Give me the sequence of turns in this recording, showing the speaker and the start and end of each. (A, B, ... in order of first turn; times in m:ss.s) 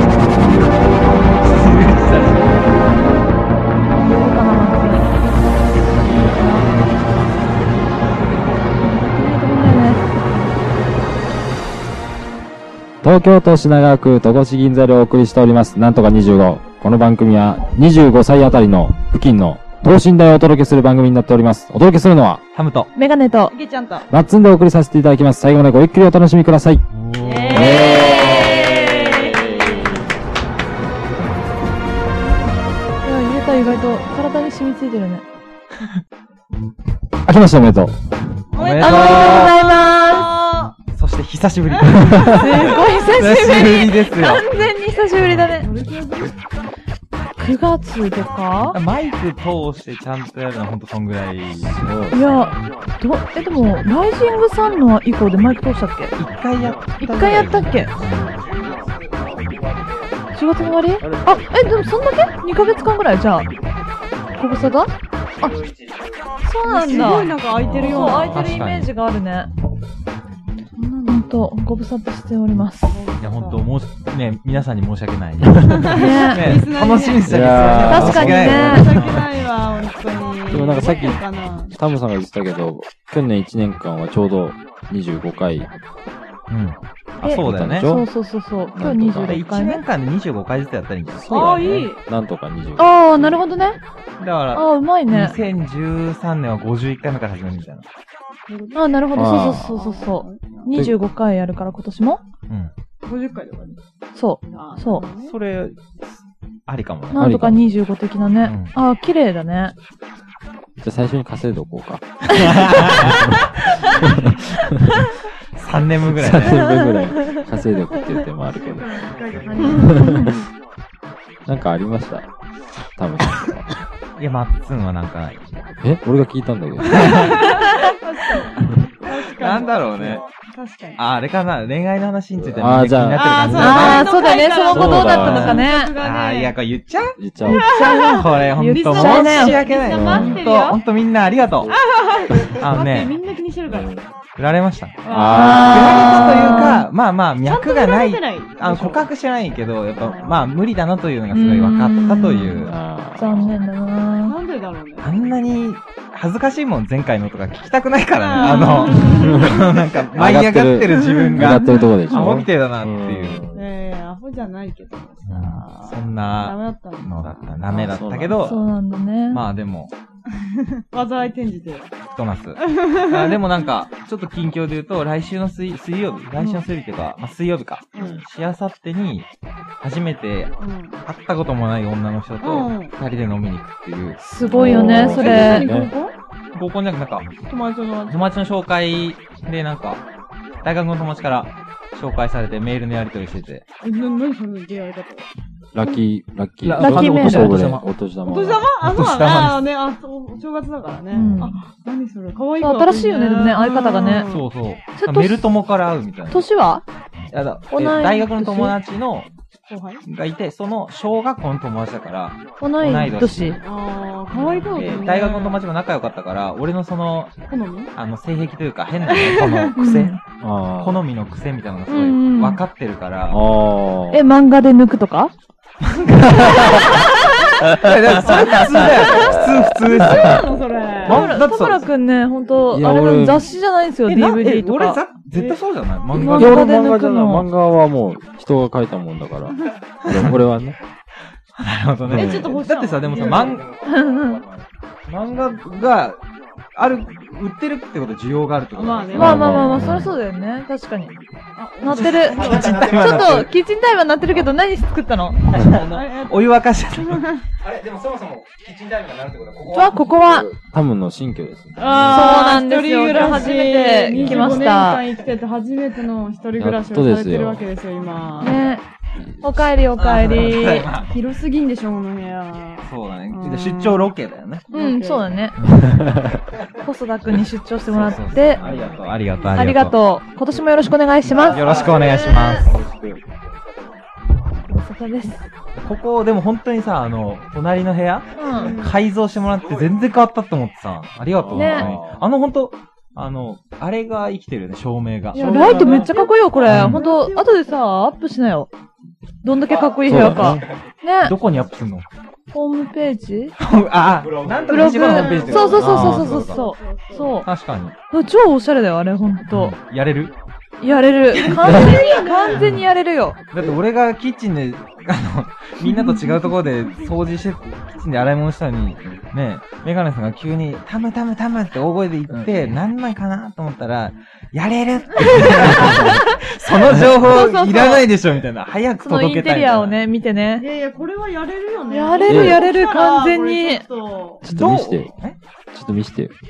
0:01.4-0:02.6 A
0:03.9-0:05.1 B
0:08.8-0:10.0 B
0:13.0-0:22.4 C
0:22.5-0:22.9 A
0:23.0-0:23.5 B
0:23.5-0:24.1 D
0:24.1-0:26.8 C
0:26.9-0:27.8 A
0:27.2-0:30.0 D
0:27.5-0:30.0 C
0:27.6-0:29.3 B
0:33.0-0:35.2 B
0:37.2-0:38.0 C
0:38.5-0:40.7 D
0:38.6-0:39.5 A
0:38.6-0:40.4 B
0:40.9-0:44.5 A
0:41.7-0:42.8 D
0:42.2-0:45.7 B
0:45.2-0:45.5 A
0:45.6-0:46.4 D
0:47.4-0:48.8 B
0:48.7-0:51.8 A
0:51.6-0:52.6 C
0:52.1-0:56.2 B
0:56.2-0:58.3 A
0:56.6-1:01.3 E
0:57.0-0:57.9 B
1:00.3-1:03.5 B
1:01.0-1:01.4 C
1:04.3-1:04.7 E
1:04.3-1:05.6 B
1:05.3-1:06.4 E
1:06.4-1:09.5 B
1:06.6-1:08.6 D
1:07.5-1:08.9 A
1:07.7-1:08.2 C
1:10.8-1:11.4 D
1:11.0-1:13.0 B
1:12.9-1:13.6 D
1:13.2-1:19.2 A
1:15.6-1:21.8 D
1:15.9-1:16.7 B
1:17.2-1:19.2 C
1:17.8-1:19.1 B
1:20.5-1:25.7 C
1:26.5-1:27.9 A
1:27.2-1:29.8 B
1:27.2-1:28.1 C
1:28.7-1:29.4 C
1:29.2-1:31.9 A
1:31.1-1:33.5 C
1:31.3-1:32.0 D
1:32.8-1:33.8 B
1:34.2-1:37.9 A
1:34.6-1:35.4 B
1:38.5-1:39.0 D
1:38.8-1:42.2 B
1:39.1-1:39.8 C
1:39.7-1:40.8 D
1:43.0-1:43.8 D
1:44.1-1:45.0 B
1:44.5-1:45.3 D
1:45.2-1:46.0 A
1:46.7-1:47.2 A
1:47.1-1:49.7 B
1:47.1-1:47.7 C
1:48.4-1:48.7 A
1:50.8-1:53.4 C
1:52.3-1:53.3 A
1:54.0-1:54.3 C
1:55.6-1:56.7 A
1:56.0-1:59.1 C
1:56.4-1:57.4 B
1:58.5-2:00.4 D
1:59.1-2:00.0 E
1:59.7-2:00.4 C
2:00.1-2:00.3 B
2:01.4-2:02.3 C
2:03.0-2:03.7 C
2:04.2-2:05.4 A
2:05.8-2:07.3 C
2:06.9-2:11.0 D
2:06.9-2:07.4 A
2:09.3-2:10.2 A
2:11.0-2:14.1 A
2:12.4-2:14.0 C
2:13.1-2:16.5 D
2:13.5-2:15.9 B
2:14.7-2:15.7 C
2:16.0-2:17.2 A
2:17.2-2:17.7 C
2:17.5-2:19.8 B
2:17.5-2:20.8 D
2:17.7-2:21.7 A
2:19.9-2:20.5 C
2:21.7-2:23.9 D
2:22.6-2:23.2 A
2:23.7-2:24.1 C
2:24.4-2:25.0 A
2:25.0-2:26.7 D
2:25.1-2:26.3 C
2:25.3-2:26.9 B
2:25.5-2:32.7 A
2:27.4-2:29.0 D
2:30.0-2:30.5 D
2:31.3-2:34.4 B
2:32.6-2:33.6 C
2:34.2-2:35.2 D
2:35.0-2:43.5 A
2:38.2-2:40.1 D
2:38.4-2:39.2 B
2:39.3-2:43.6 C
2:41.0-2:41.9 B
2:43.5-2:47.6 D
2:45.2-2:48.6 A
2:47.7-2:48.6 C
2:48.4-2:49.4 B
2:49.3-2:49.9 A
2:50.4-2:51.9 D
2:52.1-2:59.3 A
2:52.6-2:53.4 D
2:56.4-2:56.7 D
2:57.9-2:58.2 D
2:58.0-2:58.2 C
2:59.8-3:00.5 A
3:00.6-3:01.0 D
3:01.0-3:04.2 A
3:02.4-3:02.9 D
3:04.2-3:05.7 B
3:04.4-3:05.9 C
3:04.8-3:06.2 D
3:04.8-3:05.7 A
3:06.5-3:07.3 A
3:07.5-3:08.3 D
3:08.1-3:10.0 A
3:10.6-3:13.6 A
3:13.8-3:15.3 D
3:15.7-3:18.7 C
3:16.6-3:17.9 A
3:16.8-3:17.6 B
3:18.2-3:24.4 D
3:18.8-3:19.7 A
3:21.1-3:21.5 B
3:21.2-3:21.5 A
3:22.6-3:24.3 B
3:24.2-3:26.5 A
3:25.0-3:25.4 B
3:26.3-3:26.8 B
3:27.3-3:29.3 A
3:27.7-3:28.8 B
3:29.7-3:30.0 D
3:30.0-3:33.6 A
3:32.6-3:33.6 B
3:33.6-3:35.6 D
3:34.3-3:37.3 A
3:37.5-3:37.9 D
3:37.9-3:40.2 A
3:39.1-3:39.8 D
3:39.8-3:40.2 B
3:40.4-3:41.0 C
3:40.8-3:43.4 A
3:41.9-3:42.6 B
3:43.3-3:44.2 C
3:44.1-3:45.3 B
3:46.0-3:51.3 D
3:46.0-3:47.0 A
3:47.7-3:50.5 A
3:49.1-3:50.3 C
3:51.0-3:51.8 A
3:51.1-3:55.0 B
3:52.7-3:53.5 C
3:54.1-3:56.7 A
3:55.3-3:55.6 D
3:56.2-3:57.5 B
3:56.2-4:00.8 C
4:01.6-4:03.7 A
4:02.1-4:02.6 C
4:02.1-4:03.6 D
4:03.0-4:04.7 E
4:03.8-4:04.4 B
4:05.1-4:06.2 A
4:06.8-4:10.1 A
4:08.7-4:09.9 D
4:09.1-4:11.1 B
4:09.2-4:10.2 C
4:11.6-4:12.9 D
4:11.8-4:15.4 B
4:11.9-4:13.4 A
4:12.1-4:13.5 E
4:15.5-4:17.3 A
4:15.8-4:17.4 D
4:17.6-4:20.1 E
4:19.7-4:20.5 B
4:20.4-4:22.3 C
4:21.8-4:28.7 D
4:22.1-4:25.0 B
4:24.1-4:24.8 C
4:26.6-4:27.7 C
4:28.4-4:28.8 B
4:29.4-4:30.9 B
4:30.0-4:34.0 D
4:30.0-4:31.1 A
4:32.8-4:34.6 A
4:34.7-4:35.3 D
4:34.7-4:35.6 B
4:35.6-4:36.0 A
4:35.9-4:36.3 C
4:36.8-4:38.6 B
4:37.9-4:40.0 A
4:38.1-4:38.9 E
4:38.6-4:39.1 C
4:39.4-4:41.9 B
4:41.3-4:43.9 E
4:41.4-4:42.8 D
4:41.4-4:42.8 A
4:42.6-4:43.2 C
4:44.7-4:45.4 B
4:45.8-4:57.0 A
4:48.4-4:48.8 B
4:48.4-4:48.9 E
4:48.4-4:48.9 D
4:49.5-4:50.0 E
4:51.4-4:52.2 C
4:51.5-4:51.9 B
4:55.3-4:58.7 B
4:55.4-4:57.7 D
4:55.5-4:55.9 C
4:56.7-4:56.9 C
4:59.4-5:01.4 B
4:59.5-5:00.9 E
5:00.0-5:00.6 C
5:01.2-5:02.1 A
5:02.5-5:03.6 B
5:03.6-5:06.6 A
5:04.1-5:06.0 E
5:04.7-5:07.5 B
5:04.9-5:07.4 D
5:07.4-5:07.9 A
5:08.1-5:09.8 B
5:09.5-5:10.3 A
5:10.8-5:13.4 B
5:10.8-5:12.6 D
5:11.6-5:12.0 C
5:12.5-5:12.8 A
5:13.5-5:30.0 A
5:22.3-5:22.8 C
5:25.7-5:26.2 C
5:25.7-5:28.1 B
5:29.0-5:30.7 B
5:30.6-5:34.4 D
5:31.9-5:33.8 B
5:32.2-5:32.6 C
5:34.4-5:35.1 C
5:34.5-5:35.4 A
5:35.7-5:36.3 C